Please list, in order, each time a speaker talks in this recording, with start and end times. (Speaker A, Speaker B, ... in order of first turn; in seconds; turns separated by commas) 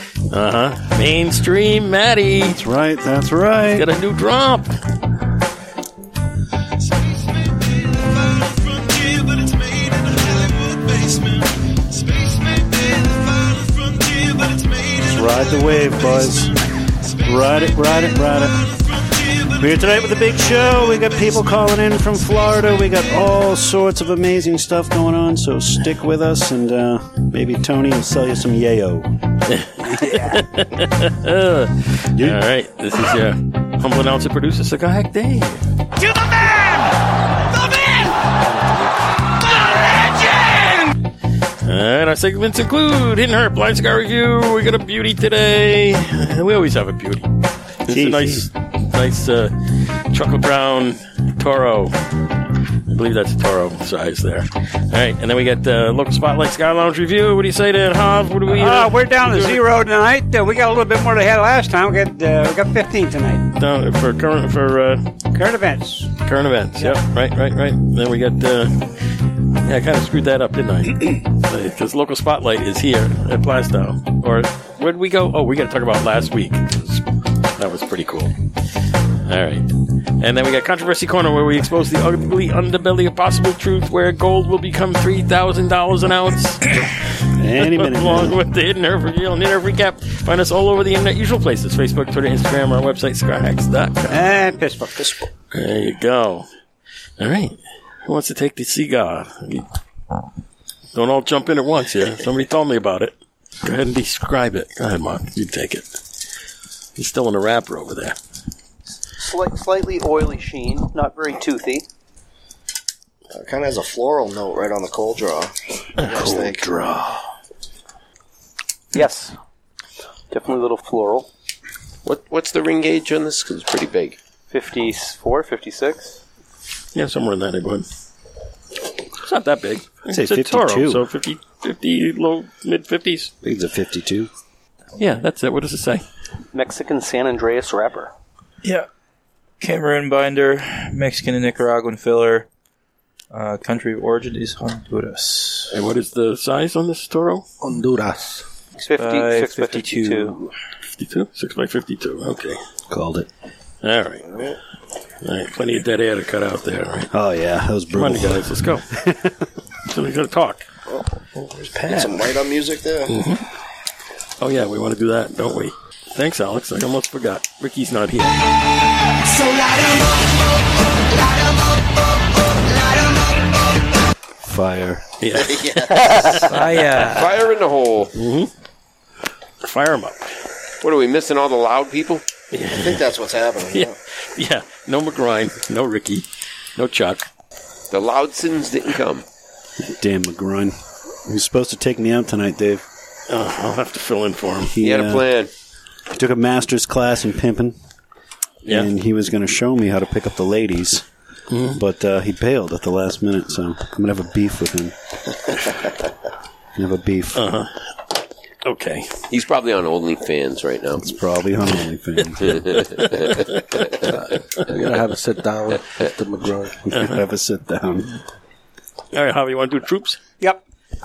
Speaker A: 0.3-2.6, Speaker B: 2.4-3.9, Speaker A: 3.7-4.7, Speaker B: 14.9-16.5, Speaker B: 17.2-18.8, Speaker B: 19.4-29.1, Speaker A: 29.5-35.6, Speaker A: 41.6-47.3, Speaker A: 47.9-49.5, Speaker B: 47.9-48.5, Speaker A: 50.1-51.9, Speaker A: 52.9-59.6, Speaker C: 58.5-63.5, Speaker A: 63.5-65.0, Speaker C: 65.3-66.1, Speaker A: 66.2-69.0, Speaker A: 69.6-77.0, Speaker A: 77.5-78.3, Speaker A: 79.2-79.7, Speaker A: 80.2-87.0, Speaker B: 87.4-88.4, Speaker A: 87.6-94.3, Speaker C: 94.1-95.3, Speaker A: 95.5-96.5, Speaker A: 97.2-99.6, Speaker A: 100.9-105.9, Speaker A: 107.0-108.2, Speaker D: 109.2-111.8, Speaker E: 113.3-116.9, Speaker A: 116.0-117.0, Speaker D: 118.9-119.3, Speaker D: 120.3-121.3, Speaker F: 122.0-124.2, Speaker D: 124.5-126.2, Speaker A: 126.9-127.9, Speaker A: 129.2-133.3, Speaker B: 130.1-131.0, Speaker B: 133.4-134.3, Speaker A: 134.9-136.0, Speaker D: 136.5-138.1, Speaker G: 139.6-142.5, Speaker G: 143.3-145.7, Speaker A: 145.7-147.4, Speaker H: 147.6-148.4, Speaker D: 148.8-150.3, Speaker G: 148.9-150.5, Speaker A: 151.0-152.6, Speaker B: 152.9-153.3, Speaker A: 153.8-154.3, Speaker E: 154.2-154.6, Speaker A: 155.2-157.1, Speaker B: 157.1-159.3, Speaker A: 157.9-158.9, Speaker A: 159.9-160.7, Speaker A: 161.3-162.3, Speaker E: 161.9-163.2, Speaker A: 163.1-163.4, Speaker A: 164.4-168.4, Speaker B: 174.4-175.1, Speaker A: 175.2-177.0, Speaker E: 175.3-176.5, Speaker G: 176.5-177.2, Speaker F: 177.1-178.1, Speaker A: 178.1-178.5, Speaker A: 179.6-180.3, Speaker F: 180.8-182.2, Speaker A: 182.5-183.0, Speaker E: 182.8-183.9, Speaker A: 183.7-187.2, Speaker F: 187.9-189.2, Speaker B: 189.8-190.7, Speaker B: 191.2-192.8, Speaker A: 193.3-194.7, Speaker B: 194.7-195.2, Speaker F: 194.8-195.5, Speaker B: 196.1-197.8, Speaker A: 198.6-198.9, Speaker B: 198.7-201.0, Speaker A: 201.5-201.8, Speaker B: 201.7-204.9, Speaker B: 206.8-207.4, Speaker A: 207.3-207.8, Speaker A: 208.6-209.2, Speaker F: 209.3-211.0, Speaker B: 211.0-213.1, Speaker F: 212.4-213.4, Speaker A: 213.3-213.9, Speaker H: 214.7-216.8, Speaker B: 216.8-218.2, Speaker A: 219.1-220.2